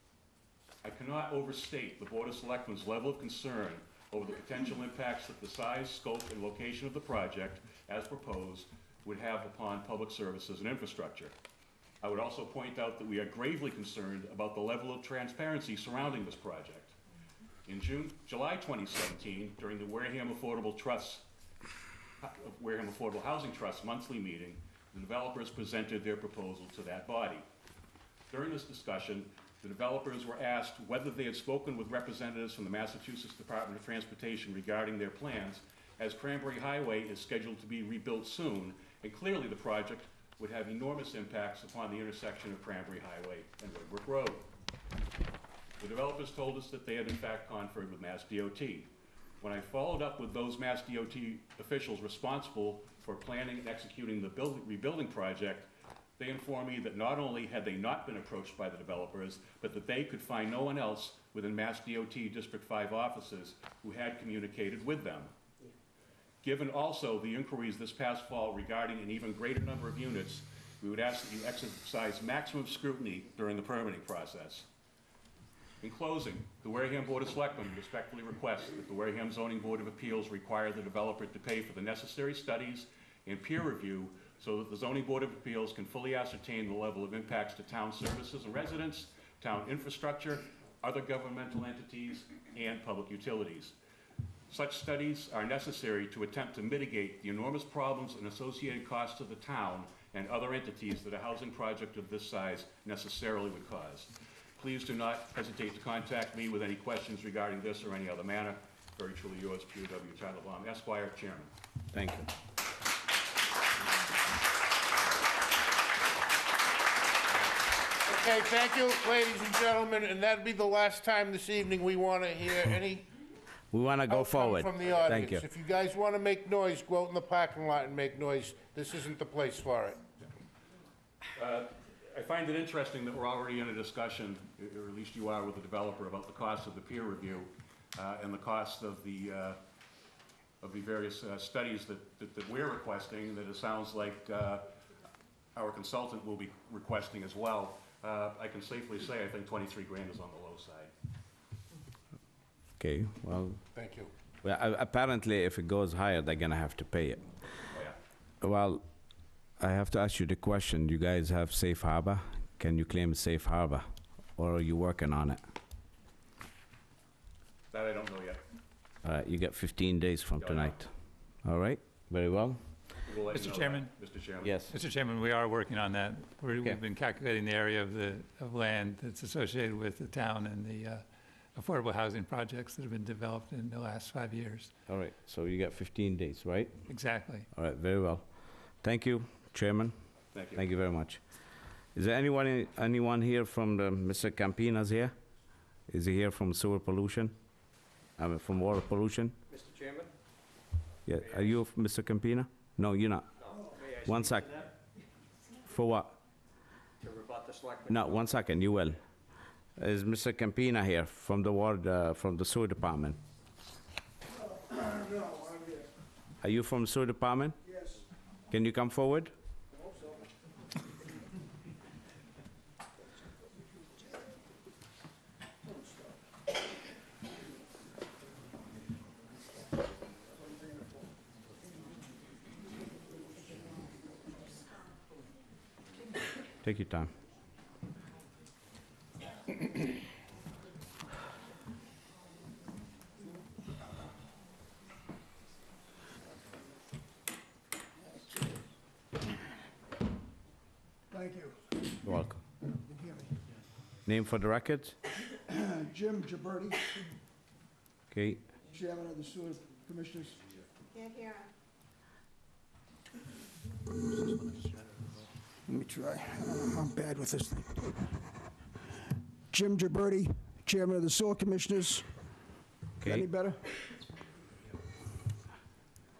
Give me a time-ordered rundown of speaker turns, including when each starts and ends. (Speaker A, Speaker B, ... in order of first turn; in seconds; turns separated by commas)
Speaker A: 0.8-11.3, Speaker A: 12.0-16.9, Speaker A: 17.7-21.2, Speaker A: 22.2-27.4, Speaker A: 28.3-44.5, Speaker A: 45.8-48.9, Speaker A: 49.4-65.3, Speaker A: 66.4-74.7, Speaker A: 75.8-93.8, Speaker A: 94.5-111.5, Speaker B: 111.9-112.3, Speaker C: 118.0-123.0, Speaker B: 123.7-125.5, Speaker C: 124.1-130.0, Speaker A: 131.3-139.6, Speaker A: 140.6-144.6, Speaker A: 145.5-150.9, Speaker B: 152.8-153.6, Speaker C: 153.8-154.1, Speaker B: 154.4-157.2, Speaker A: 157.7-157.9, Speaker B: 158.4-158.8, Speaker B: 159.6-163.8, Speaker B: 164.3-165.4, Speaker A: 167.7-168.4, Speaker B: 169.0-170.9, Speaker A: 170.4-170.8, Speaker B: 171.4-172.6, Speaker A: 173.0-174.5, Speaker D: 173.3-174.1, Speaker B: 174.4-174.7, Speaker D: 174.7-181.0, Speaker D: 181.5-184.7, Speaker B: 184.9-186.8, Speaker D: 186.9-187.5, Speaker B: 187.5-188.2, Speaker B: 188.8-189.9, Speaker A: 190.3-190.6, Speaker B: 190.5-191.2, Speaker B: 191.9-195.1, Speaker B: 195.9-197.3, Speaker B: 198.2-199.4, Speaker E: 199.5-200.1, Speaker B: 201.1-203.3, Speaker E: 201.2-201.5, Speaker E: 203.4-204.7, Speaker B: 203.8-204.6, Speaker B: 205.6-206.2, Speaker E: 207.0-208.3, Speaker B: 207.9-209.0, Speaker B: 209.8-213.2, Speaker F: 214.3-215.9, Speaker B: 216.4-217.6, Speaker F: 217.7-218.0, Speaker B: 218.5-219.3, Speaker B: 236.6-237.1, Speaker F: 251.1-252.1, Speaker B: 252.1-252.4, Speaker F: 252.8-253.3, Speaker B: 254.1-255.0, Speaker F: 255.4-256.9, Speaker B: 258.1-258.5, Speaker F: 258.7-260.4, Speaker F: 265.7-268.1, Speaker F: 269.5-272.1, Speaker B: 273.0-273.3, Speaker F: 273.0-273.6